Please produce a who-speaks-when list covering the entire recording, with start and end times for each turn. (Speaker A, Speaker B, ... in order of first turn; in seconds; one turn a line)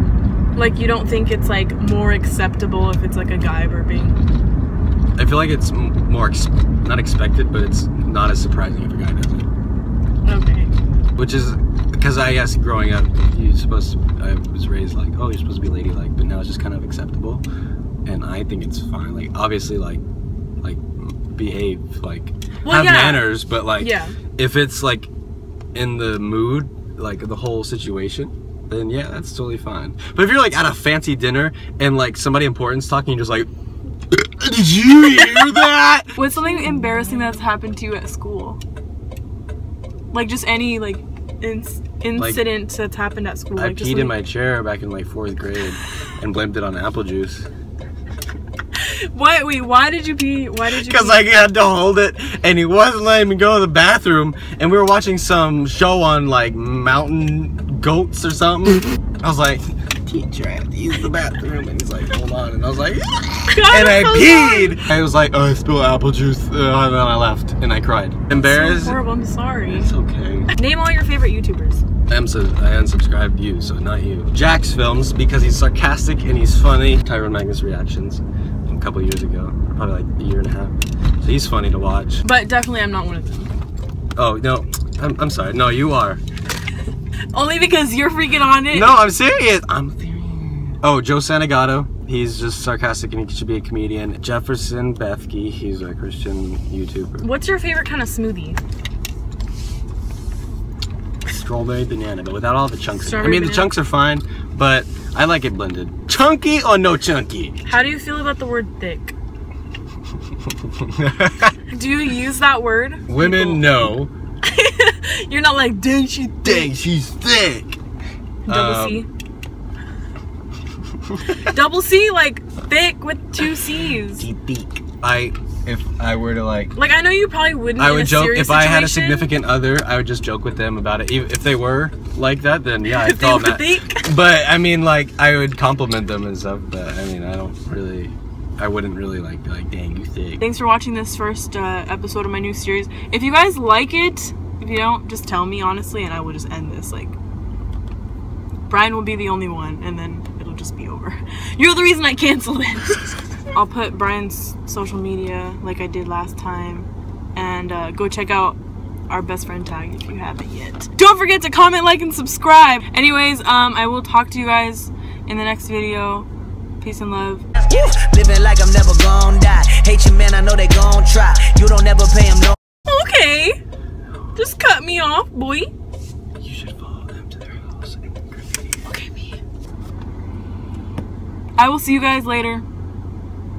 Speaker A: 0.6-4.2
Speaker B: 5.2-9.5
Speaker A: 10.2-10.7
Speaker B: 11.2-17.4
Speaker B: 18.1-20.0
Speaker B: 20.6-25.1
Speaker A: 22.6-24.2
Speaker B: 25.8-33.5
Speaker B: 34.1-36.3
Speaker A: 36.2-38.6
Speaker A: 40.1-44.1
Speaker B: 42.2-42.4
Speaker B: 43.6-47.5
Speaker A: 48.8-51.2
Speaker B: 50.7-69.0
Speaker A: 63.5-64.8
Speaker A: 68.3-70.0
Speaker B: 69.6-70.5
Speaker A: 70.5-71.8
Speaker B: 72.1-82.2
Speaker A: 82.2-83.5
Speaker B: 84.2-86.2
Speaker A: 87.3-89.0
Speaker B: 88.7-97.3
Speaker A: 97.2-98.6
Speaker B: 101.3-107.6
Speaker A: 103.0-103.7
Speaker A: 107.7-109.1
Speaker B: 110.8-111.5
Speaker A: 111.7-113.7
Speaker B: 113.1-114.1
Speaker A: 114.4-116.7
Speaker B: 116.4-117.8
Speaker A: 118.5-119.1
Speaker B: 118.5-119.0
Speaker A: 121.3-124.3
Speaker B: 124.2-126.7
Speaker A: 126.8-129.3
Speaker B: 127.8-140.4
Speaker A: 132.9-134.1
Speaker A: 140.4-147.2
Speaker A: 148.7-158.6
Speaker A: 159.1-166.3
Speaker A: 166.8-167.5
Speaker C: 167.6-172.6
Speaker A: 172.9-173.6
Speaker A: 174.3-175.7
Speaker B: 176.4-178.6
Speaker A: 178.9-179.4
Speaker A: 181.6-182.6